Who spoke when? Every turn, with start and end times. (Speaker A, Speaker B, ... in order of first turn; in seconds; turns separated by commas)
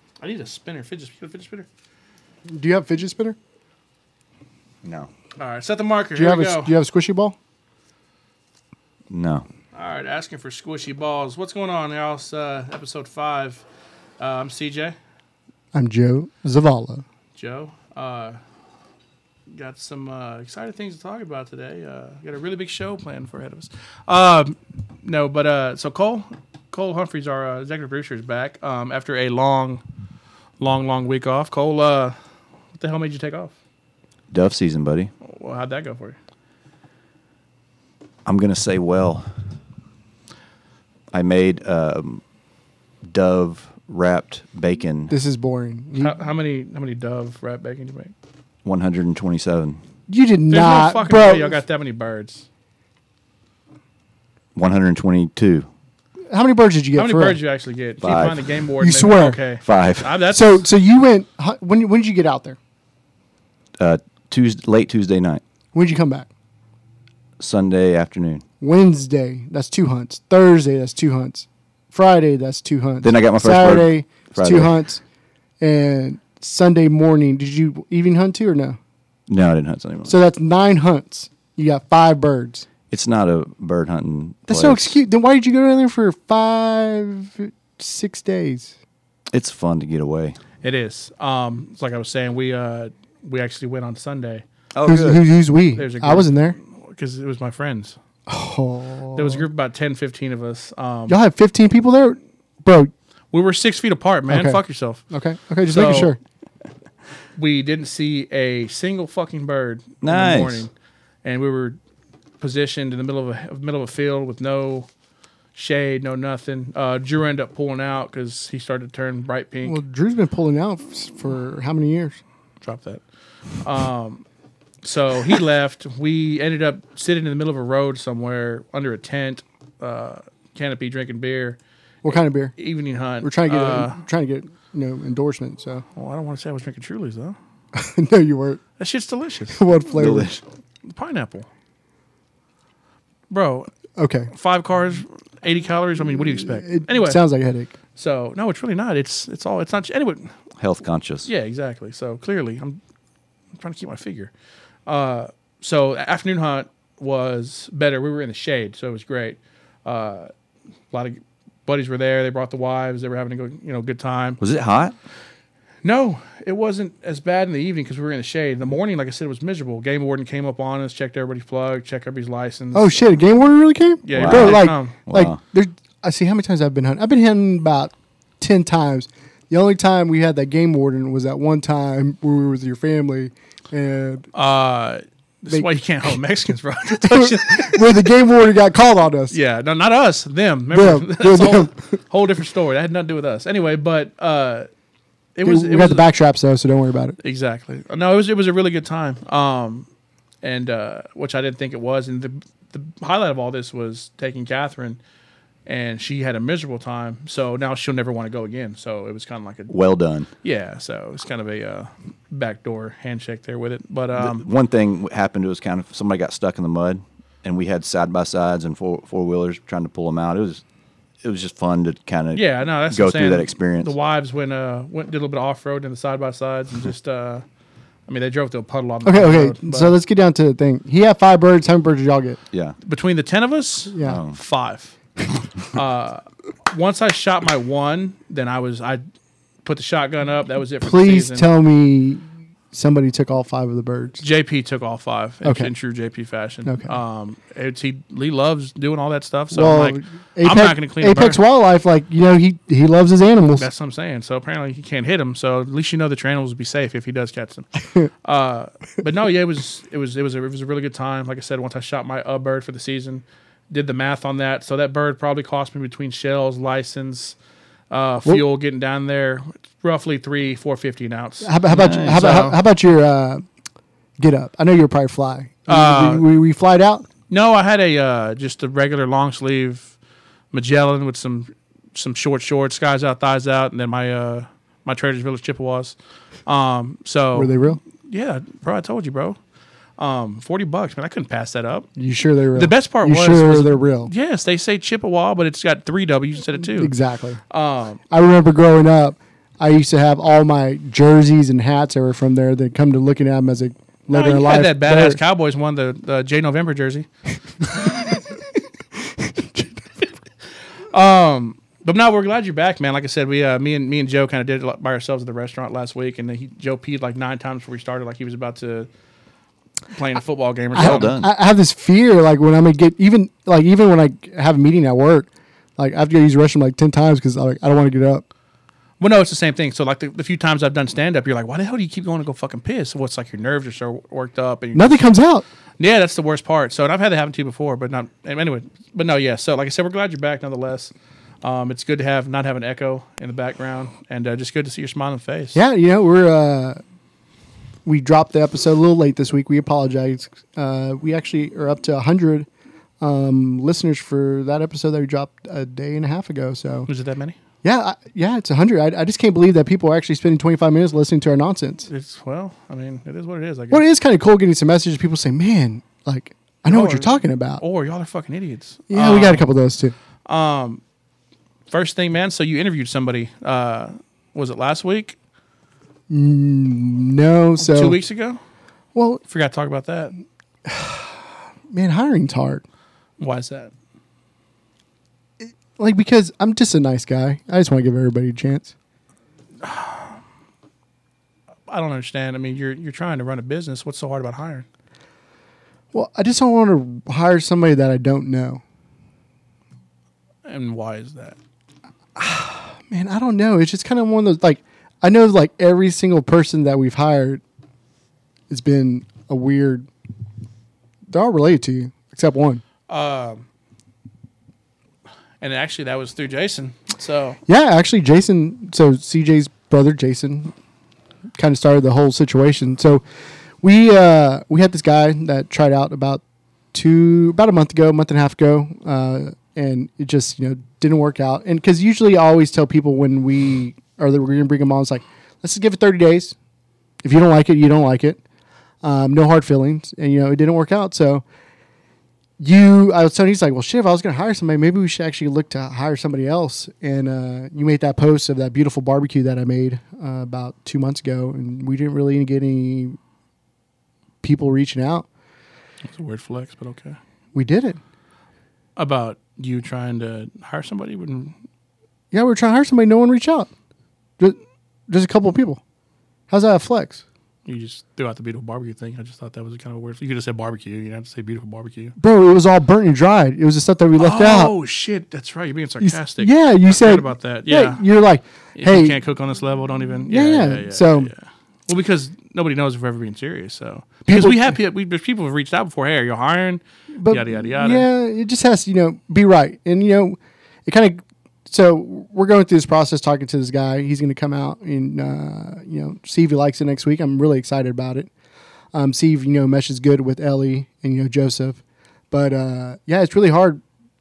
Speaker A: 0.2-1.7, Speaker B: 2.5-3.4, Speaker C: 4.8-5.1, Speaker A: 5.4-6.7, Speaker B: 6.2-7.4, Speaker C: 9.1-9.4, Speaker A: 9.7-13.6, Speaker A: 14.2-15.0, Speaker B: 15.7-17.0, Speaker A: 17.4-18.4, Speaker A: 19.5-29.8, Speaker A: 30.6-32.1, Speaker A: 32.7-33.5, Speaker C: 34.3-35.1, Speaker A: 35.2-36.2, Speaker C: 38.2-39.5, Speaker C: 41.1-42.2, Speaker C: 43.0-45.1, Speaker B: 45.1-46.2, Speaker A: 46.0-48.1, Speaker C: 48.6-49.8, Speaker B: 50.1-51.6, Speaker A: 50.5-52.5, Speaker C: 54.5-55.7, Speaker B: 56.3-57.4, Speaker A: 57.0-60.7, Speaker C: 58.0-58.4, Speaker B: 58.8-59.4, Speaker C: 59.6-60.1, Speaker B: 60.3-62.6, Speaker C: 63.8-65.4, Speaker B: 65.7-66.3, Speaker C: 67.4-68.4, Speaker B: 68.6-75.0, Speaker C: 73.0-74.8, Speaker B: 75.6-78.8, Speaker C: 79.3-80.2, Speaker B: 80.0-82.7, Speaker C: 82.9-84.9, Speaker B: 84.5-88.7, Speaker C: 89.3-90.4, Speaker A: 90.6-94.4, Speaker C: 94.7-95.2, Speaker B: 94.9-96.6, Speaker A: 95.7-98.0, Speaker B: 98.3-99.5, Speaker A: 99.1-101.2, Speaker B: 101.1-102.9, Speaker A: 103.3-105.0, Speaker B: 104.3-106.2, Speaker A: 105.6-106.1, Speaker A: 107.4-110.7, Speaker C: 110.0-110.7, Speaker A: 111.2-111.8, Speaker A: 112.4-114.9, Speaker A: 115.5-119.8, Speaker B: 119.6-122.2, Speaker A: 122.6-123.0, Speaker A: 123.6-124.2, Speaker A: 124.8-134.0, Speaker B: 132.0-132.6, Speaker B: 133.2-135.8, Speaker A: 136.0-137.4, Speaker B: 137.7-138.6, Speaker A: 138.8-139.6, Speaker B: 139.6-140.4, Speaker C: 139.9-140.4, Speaker A: 140.9-141.5, Speaker A: 143.3-143.7, Speaker B: 144.0-144.3, Speaker A: 144.3-147.2, Speaker B: 146.3-147.7, Speaker A: 147.9-150.3, Speaker C: 150.6-151.3, Speaker A: 151.2-152.8, Speaker A: 153.6-154.3, Speaker A: 154.9-160.3, Speaker A: 160.9-164.4, Speaker C: 164.4-164.9, Speaker A: 165.8-173.1, Speaker B: 172.8-184.3, Speaker A: 174.0-175.0, Speaker C: 174.2-175.4, Speaker A: 184.3-187.9, Speaker B: 187.0-189.4, Speaker A: 189.3-194.7, Speaker B: 190.7-191.8, Speaker A: 195.4-196.1, Speaker B: 195.4-197.2, Speaker A: 197.2-199.9, Speaker A: 200.4-205.0, Speaker A: 205.7-209.7, Speaker C: 209.7-210.3, Speaker A: 210.4-214.5, Speaker C: 214.2-220.6, Speaker C: 221.2-223.9, Speaker A: 222.3-227.4, Speaker A: 228.1-230.0, Speaker B: 229.1-232.4, Speaker A: 232.8-235.0, Speaker B: 233.9-234.2, Speaker C: 234.0-234.4, Speaker A: 235.7-239.0, Speaker A: 239.7-241.5, Speaker B: 240.8-244.2, Speaker A: 244.2-251.4, Speaker B: 245.4-245.7, Speaker B: 246.7-246.9, Speaker B: 249.5-253.7, Speaker A: 253.6-257.7, Speaker A: 258.2-267.4, Speaker A: 267.9-272.6, Speaker B: 271.4-273.4, Speaker C: 271.7-272.4, Speaker B: 274.2-277.1, Speaker A: 275.7-276.2, Speaker A: 277.3-279.9, Speaker A: 280.5-285.9, Speaker A: 286.4-289.4, Speaker B: 287.4-287.8, Speaker A: 290.0-291.9, Speaker B: 291.9-294.1, Speaker A: 292.5-296.9, Speaker B: 296.6-297.4, Speaker A: 297.5-298.0, Speaker B: 298.1-305.2, Speaker A: 304.1-307.1, Speaker B: 307.8-308.2, Speaker B: 309.2-309.7, Speaker A: 310.9-318.9, Speaker A: 319.9-321.1, Speaker C: 320.7-321.3, Speaker B: 320.8-328.2, Speaker A: 329.0-335.1, Speaker B: 334.8-335.4, Speaker A: 335.8-345.6, Speaker B: 345.6-346.8, Speaker B: 347.9-352.5, Speaker B: 353.0-356.9, Speaker A: 356.9-357.4, Speaker B: 357.6-361.9, Speaker A: 361.9-363.8, Speaker B: 363.7-367.6, Speaker A: 366.7-369.4, Speaker B: 368.9-369.9, Speaker A: 370.2-370.8, Speaker A: 371.7-375.2, Speaker B: 376.1-378.0, Speaker A: 377.6-378.4, Speaker B: 378.9-379.2, Speaker A: 379.3-380.1, Speaker B: 380.6-382.6, Speaker A: 383.2-383.7, Speaker B: 385.4-388.7, Speaker A: 389.6-390.2, Speaker A: 391.7-394.7, Speaker B: 395.9-398.6, Speaker A: 400.4-401.4, Speaker B: 402.2-407.4, Speaker B: 408.5-409.9, Speaker B: 411.1-412.6, Speaker A: 412.9-413.4, Speaker A: 415.4-417.4, Speaker B: 417.5-420.5, Speaker B: 421.4-423.0, Speaker B: 423.6-426.2, Speaker B: 426.7-436.4, Speaker B: 437.0-438.2, Speaker B: 438.8-441.2, Speaker B: 442.4-453.0, Speaker B: 454.2-455.1, Speaker A: 455.9-457.0, Speaker B: 457.3-457.8, Speaker A: 458.8-461.4, Speaker B: 462.1-463.5, Speaker B: 464.2-465.6, Speaker B: 466.3-467.0, Speaker A: 467.4-471.9, Speaker B: 472.0-474.5, Speaker A: 474.0-477.8, Speaker B: 475.8-479.0, Speaker A: 478.6-487.9, Speaker B: 480.1-481.1, Speaker B: 484.1-484.6, Speaker B: 486.9-498.1, Speaker B: 498.7-503.6